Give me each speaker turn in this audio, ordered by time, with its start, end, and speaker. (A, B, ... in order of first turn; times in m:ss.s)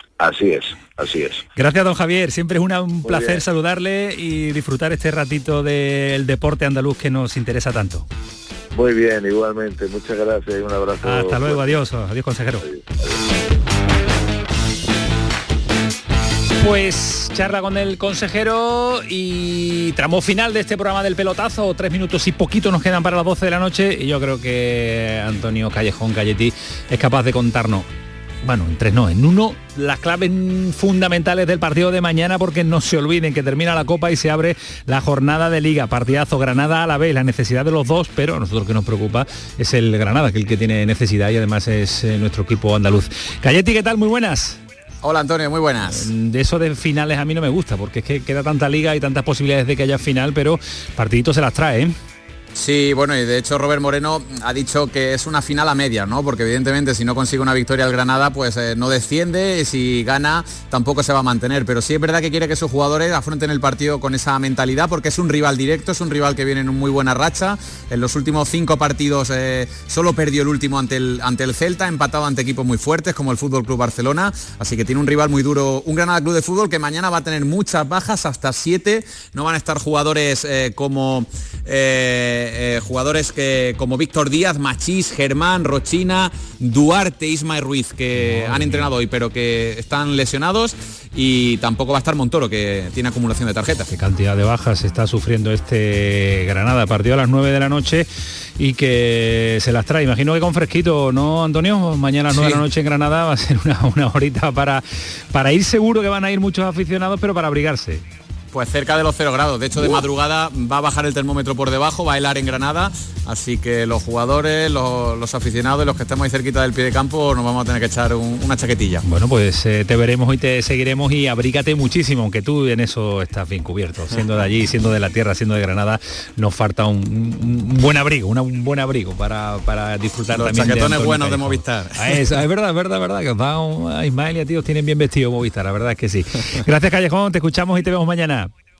0:00.2-0:01.4 A
0:01.6-0:08.1 B
0:03.0-0:03.4 A
0:08.7-0:11.8 A
0:11.0-0:12.7 B
0:12.6-0:13.2 A
0:16.6-0:27.9 B
0:28.4-0:44.6 B
0:45.0-0:46.1 C
0:45.9-0:52.0 B
0:52.6-1:33.9 C
1:28.2-1:28.9 B
1:33.9-1:38.1 B
1:38.6-1:48.0 B
1:42.3-1:42.6 C
1:48.5-1:59.0 C
1:59.0-2:18.5 B
2:10.3-2:12.2 C